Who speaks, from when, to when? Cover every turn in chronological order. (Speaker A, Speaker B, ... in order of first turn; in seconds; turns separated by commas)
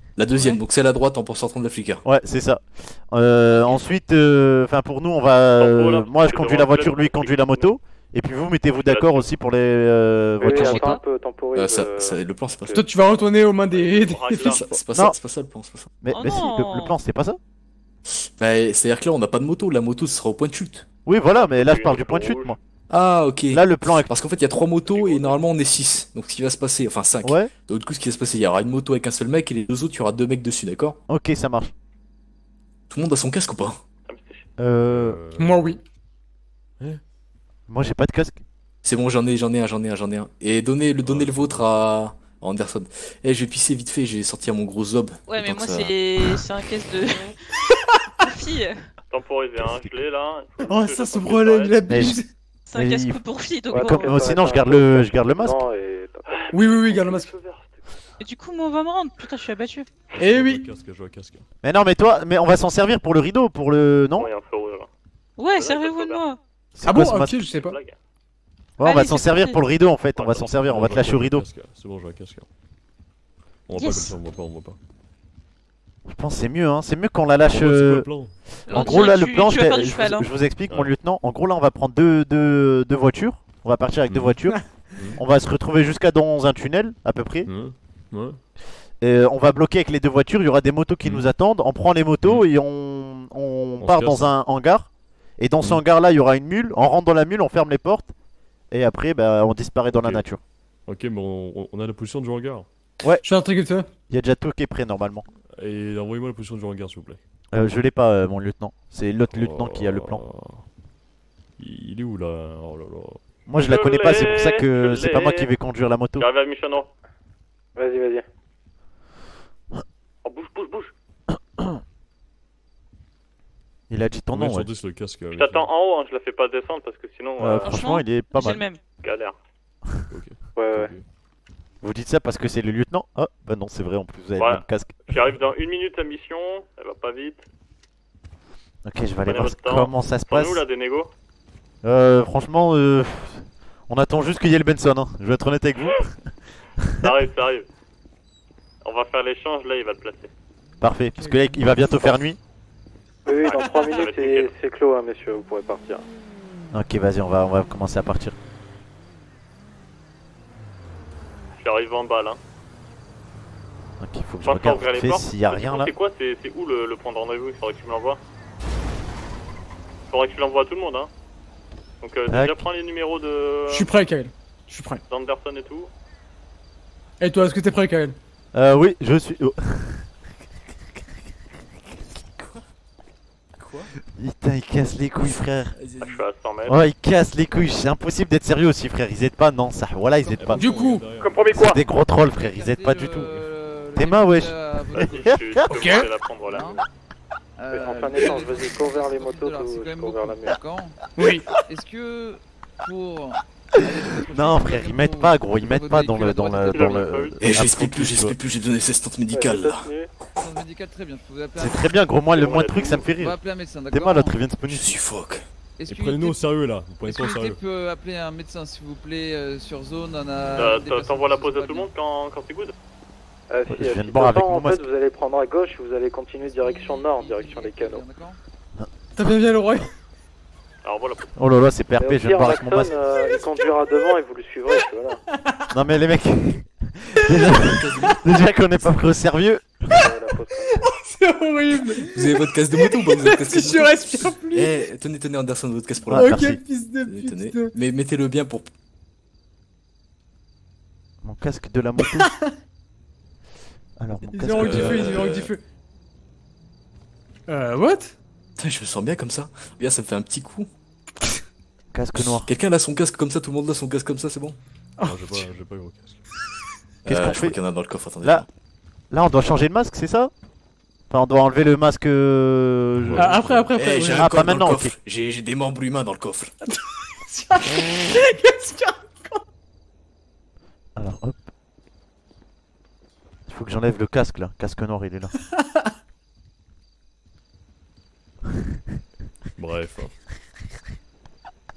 Speaker A: 0.2-2.0, Speaker B: 2.0-10.9, Speaker C: 5.6-7.7, Speaker C: 8.8-9.3, Speaker D: 10.4-12.2, Speaker E: 10.5-11.0, Speaker A: 11.5-12.8, Speaker F: 12.7-14.7, Speaker C: 13.7-14.6, Speaker A: 14.4-15.9, Speaker B: 16.0-17.4, Speaker E: 16.1-16.9, Speaker A: 18.1-20.9, Speaker B: 21.1-22.6, Speaker C: 21.5-22.5, Speaker A: 22.9-31.0, Speaker B: 23.5-24.1, Speaker G: 24.9-25.4, Speaker B: 27.2-27.5, Speaker B: 31.1-31.7, Speaker A: 32.9-33.8, Speaker C: 34.1-34.5, Speaker B: 34.6-35.2, Speaker G: 34.9-35.7, Speaker F: 35.4-35.8, Speaker B: 37.7-38.4, Speaker A: 38.8-45.9, Speaker G: 41.0-41.7, Speaker E: 45.3-47.3, Speaker E: 48.2-48.8, Speaker C: 49.1-51.9, Speaker B: 49.6-49.9, Speaker F: 50.6-52.3, Speaker B: 51.9-52.2, Speaker E: 52.7-54.3, Speaker B: 52.7-55.6, Speaker D: 53.7-56.4, Speaker C: 56.3-57.8, Speaker F: 56.5-57.3, Speaker E: 58.2-59.9, Speaker G: 60.1-61.4, Speaker F: 60.2-60.7, Speaker B: 61.6-64.3, Speaker C: 64.2-64.9, Speaker E: 65.4-66.4, Speaker C: 65.5-66.2, Speaker B: 66.7-67.4, Speaker F: 66.8-67.8, Speaker C: 67.5-67.9, Speaker B: 68.8-71.4, Speaker E: 68.8-69.6, Speaker G: 70.2-72.5, Speaker G: 73.7-74.8, Speaker E: 73.7-74.2, Speaker B: 76.1-84.5, Speaker G: 77.5-78.3, Speaker E: 78.7-80.3, Speaker G: 80.7-80.9, Speaker G: 84.1-84.4, Speaker B: 85.2-87.5, Speaker G: 87.5-88.4, Speaker B: 89.0-98.1, Speaker G: 92.2-92.5, Speaker G: 93.8-94.4, Speaker B: 98.7-100.4, Speaker G: 99.9-100.2, Speaker G: 100.9-102.7, Speaker F: 103.2-103.9, Speaker B: 104.1-105.2, Speaker G: 105.5-107.2, Speaker B: 107.5-110.2, Speaker G: 109.3-110.6, Speaker G: 111.6-113.2, Speaker B: 113.5-116.3, Speaker C: 113.7-115.5, Speaker C: 116.2-116.9, Speaker D: 117.8-118.2, Speaker C: 120.2-120.9, Speaker B: 123.9-124.7, Speaker G: 124.3-125.7, Speaker C: 125.3-128.0, Speaker B: 127.4-128.6, Speaker E: 127.6-128.8, Speaker C: 129.0-129.3, Speaker G: 130.1-131.0, Speaker D: 130.6-130.9, Speaker B: 131.8-135.0, Speaker C: 134.4-137.4, Speaker B: 138.8-140.6, Speaker C: 139.2-141.1, Speaker B: 141.8-146.1, Speaker C: 147.0-147.7, Speaker C: 148.8-150.3, Speaker B: 150.8-152.4, Speaker F: 151.2-151.9, Speaker D: 153.2-156.0, Speaker F: 153.4-154.1, Speaker C: 153.5-154.5, Speaker B: 156.7-158.3, Speaker C: 161.6-162.4, Speaker B: 164.0-165.9, Speaker C: 164.4-168.2, Speaker C: 170.1-171.1, Speaker C: 172.0-173.9, Speaker B: 172.3-172.6, Speaker F: 173.7-175.0, Speaker C: 175.1-175.9, Speaker F: 177.2-178.2, Speaker B: 178.5-180.1, Speaker A: 183.6-183.9, Speaker B: 184.1-185.7, Speaker A: 185.3-186.2, Speaker C: 186.0-186.8, Speaker B: 186.7-190.6, Speaker G: 190.2-191.7, Speaker F: 190.5-191.8, Speaker B: 191.5-193.3, Speaker H: 192.3-195.2, Speaker B: 193.9-195.7, Speaker C: 194.9-196.8, Speaker F: 195.7-196.1, Speaker H: 196.4-196.8, Speaker H: 197.6-207.0, Speaker D: 197.7-200.6, Speaker F: 201.1-201.5, Speaker B: 203.8-208.3, Speaker C: 206.7-207.3, Speaker A: 207.4-209.9, Speaker D: 209.3-210.1, Speaker H: 210.3-211.9, Speaker B: 211.6-213.3, Speaker C: 212.3-213.1, Speaker H: 213.1-214.3, Speaker B: 213.9-215.0, Speaker A: 214.7-215.4, Speaker H: 215.8-216.4, Speaker G: 215.9-217.6, Speaker H: 217.1-221.9, Speaker C: 220.5-222.7, Speaker D: 223.5-228.0, Speaker B: 223.7-224.8, Speaker H: 226.4-228.4, Speaker F: 229.2-229.9, Speaker C: 230.8-231.3, Speaker B: 231.4-233.0, Speaker D: 232.0-235.2, Speaker B: 235.7-239.8, Speaker A: 237.5-238.4, Speaker D: 239.9-240.7, Speaker F: 240.6-244.8, Speaker A: 242.1-246.4, Speaker B: 246.1-246.6, Speaker F: 246.1-247.7, Speaker A: 247.0-248.7, Speaker B: 251.2-252.3, Speaker F: 252.0-252.5, Speaker B: 254.0-255.2, Speaker F: 254.3-255.6, Speaker A: 254.6-255.5, Speaker F: 257.5-258.1, Speaker A: 258.6-260.7, Speaker B: 261.9-262.5, Speaker A: 262.2-264.6, Speaker F: 265.0-265.4, Speaker G: 265.0-266.2, Speaker A: 267.0-268.4, Speaker B: 267.1-267.6, Speaker B: 269.1-270.3, Speaker B: 271.1-273.6, Speaker G: 273.0-273.7, Speaker F: 273.2-274.3, Speaker A: 273.8-276.5, Speaker B: 274.2-274.9, Speaker F: 277.3-279.4, Speaker B: 280.9-281.4, Speaker B: 283.5-285.3, Speaker G: 289.6-290.1